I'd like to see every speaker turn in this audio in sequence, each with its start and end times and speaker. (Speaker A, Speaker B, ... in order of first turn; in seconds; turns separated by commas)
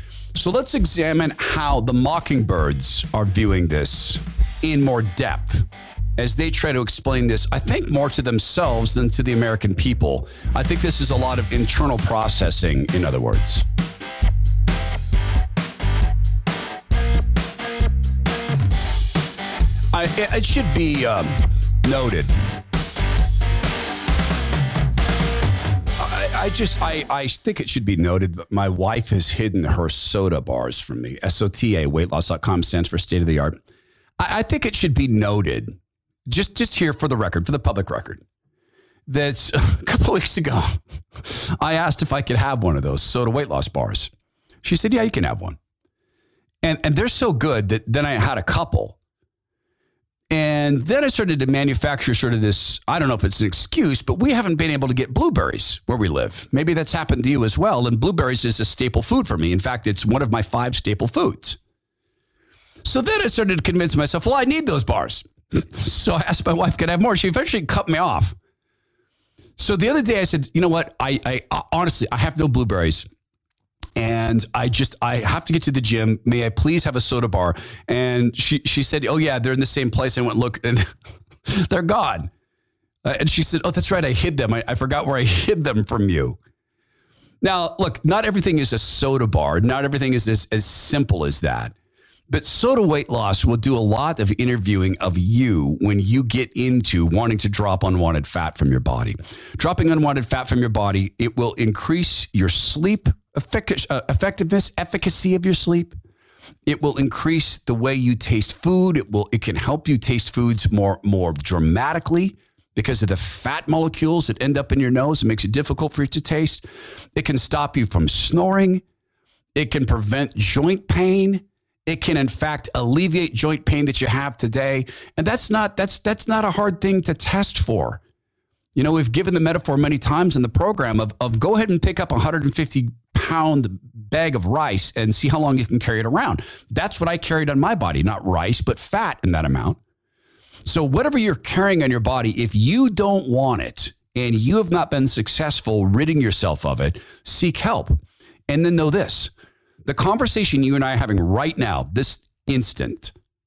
Speaker A: 0.3-13.6, Speaker A: 19.9-22.4, Speaker A: 26.0-33.6, Speaker A: 34.2-35.8, Speaker A: 36.3-38.2, Speaker A: 39.1-44.1, Speaker A: 44.6-45.6, Speaker A: 46.6-49.0, Speaker A: 50.3-61.6, Speaker A: 62.8-68.3, Speaker A: 69.6-73.0, Speaker A: 74.0-80.9, Speaker A: 81.5-82.3, Speaker A: 83.0-86.4, Speaker A: 87.4-91.7, Speaker A: 92.3-106.0, Speaker A: 106.7-118.8, Speaker A: 119.5-128.0, Speaker A: 128.8-139.8, Speaker A: 140.6-149.3, Speaker A: 149.8-153.1